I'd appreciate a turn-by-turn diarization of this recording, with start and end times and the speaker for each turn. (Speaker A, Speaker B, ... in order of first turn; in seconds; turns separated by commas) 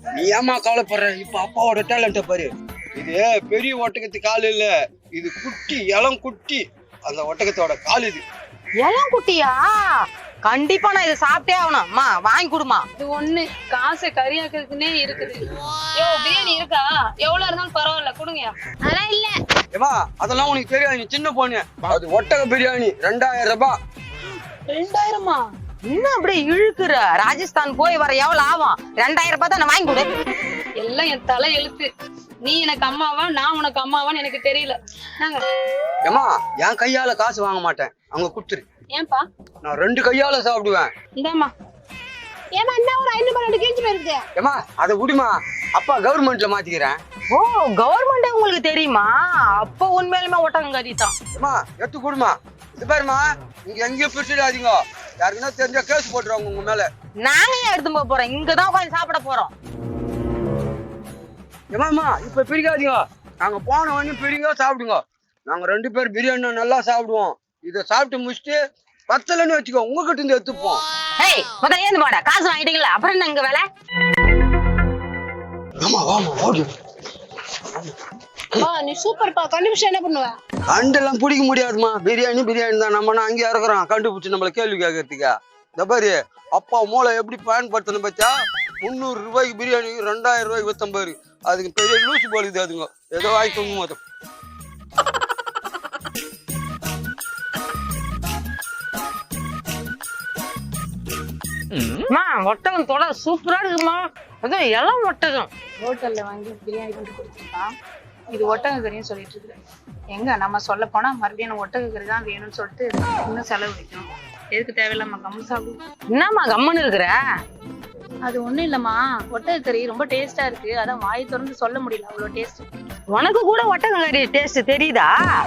Speaker A: 0.1-8.2, Speaker B: 8.8-12.8, Speaker C: 13.0-18.5, Speaker D: 18.8-19.4, Speaker A: 19.7-23.8, Speaker C: 24.7-25.4, Speaker B: 25.8-30.1, Speaker C: 30.8-31.9, Speaker C: 32.4-35.4, Speaker A: 36.0-38.6, Speaker C: 38.9-39.2, Speaker A: 39.6-40.9, Speaker C: 41.2-41.5, Speaker D: 42.5-44.2, Speaker A: 44.3-47.0, Speaker B: 47.3-51.1, Speaker A: 51.3-56.9, Speaker B: 57.2-59.5, Speaker A: 61.7-70.8, Speaker B: 71.2-73.6, Speaker A: 75.8-76.7, Speaker A: 77.7-77.9, Speaker D: 78.5-80.3, Speaker A: 80.7-94.0, Speaker B: 101.7-105.5, Speaker E: 105.8-107.7, Speaker E: 108.3-109.6, Speaker E: 110.1-115.8, Speaker B: 116.1-117.2, Speaker E: 118.2-122.7, Speaker B: 123.1-125.1